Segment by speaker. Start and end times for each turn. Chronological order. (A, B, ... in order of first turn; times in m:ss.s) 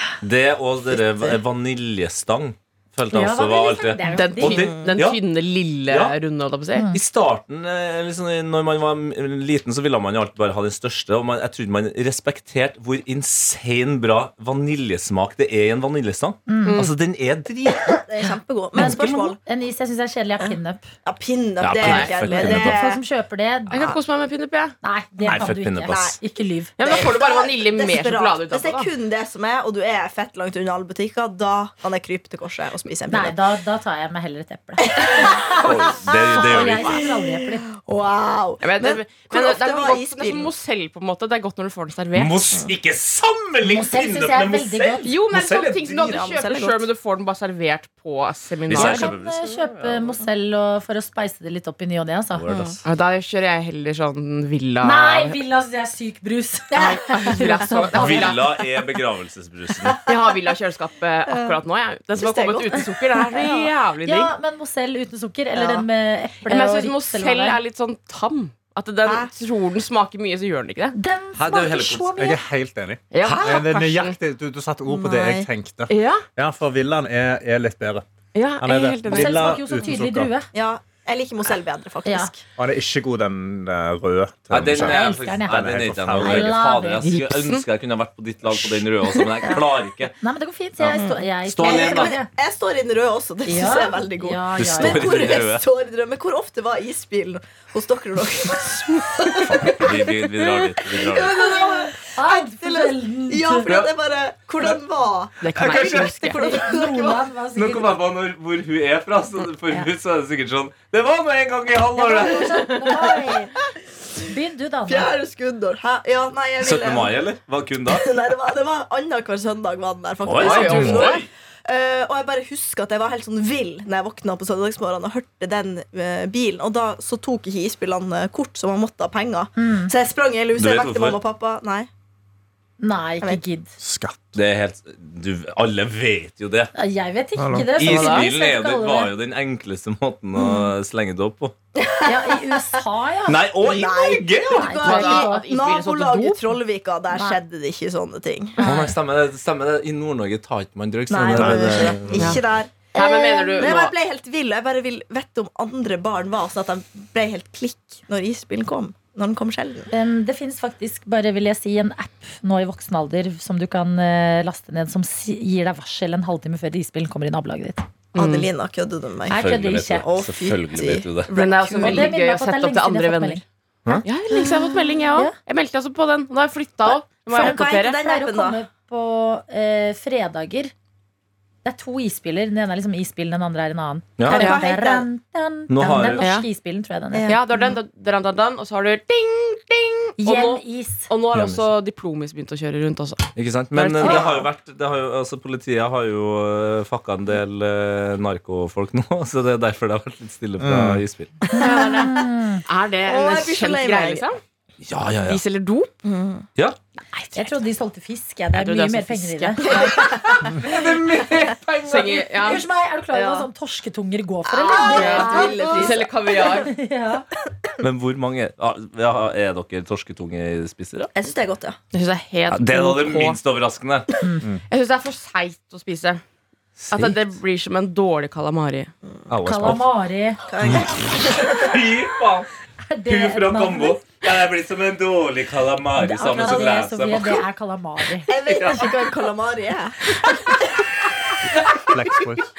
0:00.2-0:05.2 A
0:00.9-0:01.4 B
0:03.1-0:04.7 C
0:04.0-0:06.8 D
0:04.4-0:05.0 B
0:05.9-0:06.2 A
0:06.7-0:07.0 C
0:06.9-0:18.0 A
0:16.5-0:16.9 C
0:16.6-0:16.9 D
0:17.8-0:19.4 B
0:18.7-0:20.9 C
0:18.8-0:19.3 A
0:20.4-0:23.0 B
0:21.6-0:22.8 A
0:21.8-0:22.2 D
0:22.3-0:23.9 C
0:23.7-0:24.8 D
0:24.8-0:26.7 C
0:25.2-0:26.2 A
0:25.9-0:26.1 B
0:26.8-0:28.9 D
0:26.8-0:33.4 B
0:33.1-0:37.6 C
0:34.8-0:40.5 B
0:35.6-0:37.1 A
0:38.6-0:42.5 D
0:42.1-0:46.0 A
0:43.6-0:45.1 C
0:45.0-0:49.1 D
0:45.9-0:46.9 B
0:48.7-0:49.6 A
0:48.7-0:52.5 C
0:52.4-0:52.8 A
0:52.5-0:52.8 B
0:52.8-0:55.4 D
0:54.8-0:58.4 C
0:56.7-0:57.4 B
0:56.8-0:58.4 D
0:57.9-1:00.0 A
1:00.0-1:04.3 D
1:01.3-1:01.6 B
1:02.2-1:03.7 B
1:04.0-1:07.6 C
1:05.5-1:05.8 B
1:06.4-1:11.0 D
1:09.0-1:09.3 B
1:10.9-1:12.4 C
1:11.3-1:12.2 A
1:12.2-1:18.0 E
1:13.1-1:14.2 D
1:14.9-1:15.5 B
1:15.9-1:16.2 D
1:18.3-1:19.5 D
1:18.6-1:20.3 E
1:19.1-1:20.5 C
1:20.5-1:22.4 B
1:22.0-1:22.3 C
1:22.6-1:26.6 E
1:24.5-1:30.1 A
1:24.7-1:27.1 C
1:27.0-1:27.6 D
1:30.2-1:32.3 C
1:30.8-1:32.2 A
1:30.9-1:40.2 B
1:33.4-1:35.4 C
1:34.6-1:35.6 A
1:39.5-1:41.5 A
1:40.8-1:47.2 B
1:41.4-1:43.7 C
1:45.4-1:46.4 D
1:45.5-1:46.2 A
1:46.3-1:48.0 C
1:47.6-1:52.8 A
1:51.9-1:53.6 C
1:52.6-1:53.2 B
1:54.2-1:55.1 C
1:54.9-1:57.2 B
1:56.6-1:58.0 A
1:57.9-2:11.9 B
2:00.2-2:01.3 A
2:00.4-2:01.2 D
2:09.6-2:09.9 C
2:10.6-2:11.2 A
2:12.8-2:13.7 C
2:13.8-2:14.3 E
2:14.3-2:16.7 A
2:16.7-2:19.1 C
2:17.4-2:17.8 E
2:17.7-2:21.5 A
2:17.8-2:18.2 D
2:20.4-2:20.7 B
2:21.7-2:22.6 B
2:22.0-2:23.4 C
2:23.3-2:24.8 A
2:23.6-2:28.6 B
2:24.4-2:25.5 C
2:24.8-2:26.6 D
2:27.1-2:27.4 C
2:28.6-2:28.9 C
2:28.6-2:32.4 A
2:31.1-2:39.9 B
2:32.1-2:32.4 D
2:32.9-2:33.9 D
2:33.0-2:33.7 C
2:39.9-2:47.8 C
2:48.1-2:48.5 D
2:48.1-2:52.1 B
2:49.3-2:50.0 C
2:49.3-2:51.3 A
2:51.3-2:53.4 D
2:51.7-2:55.3 C
2:54.0-2:58.0 D
2:57.3-2:58.6 B
2:57.3-3:00.7 C
3:01.6-3:07.4 C
3:04.2-3:04.5 A
3:04.3-3:05.1 B
3:04.3-3:04.6 D
3:05.7-3:06.3 A
3:06.2-3:06.5 D
3:07.1-3:07.7 B
3:07.2-3:14.3 D
3:10.2-3:11.1 C
3:11.3-3:11.6 A
3:13.4-3:21.3 A
3:14.0-3:14.4 B
3:20.6-3:21.0 E
3:21.4-3:22.3 B
3:21.5-3:22.6 C
3:21.6-3:21.9 D
3:22.6-3:24.4 D
3:23.0-3:24.2 B
3:24.8-3:25.4 A
3:25.2-3:26.0 D
3:26.0-3:26.4 B
3:27.1-3:27.5 D
3:27.3-3:30.2 C
3:28.5-3:32.6 D
3:29.6-3:30.3 B
3:30.4-3:32.0 A
3:32.2-3:37.3 C
3:33.1-3:33.5 B
3:34.4-3:36.7 B
3:34.8-3:36.7 D
3:37.8-3:41.1 A
3:41.1-3:41.8 B
3:41.9-3:43.4 D
3:42.5-3:44.1 A
3:44.2-3:44.5 C
3:44.7-3:46.2 D
3:46.8-3:47.2 A
3:46.9-3:48.9 D
3:49.3-3:49.8 A
3:49.4-3:50.4 C
3:50.5-3:51.9 B
3:50.7-3:52.5 A
3:52.9-3:54.0 C
3:53.1-3:57.4 A
3:56.0-3:58.3 C
3:58.3-4:00.9 B
3:58.4-3:59.0 A
4:01.8-4:02.5 E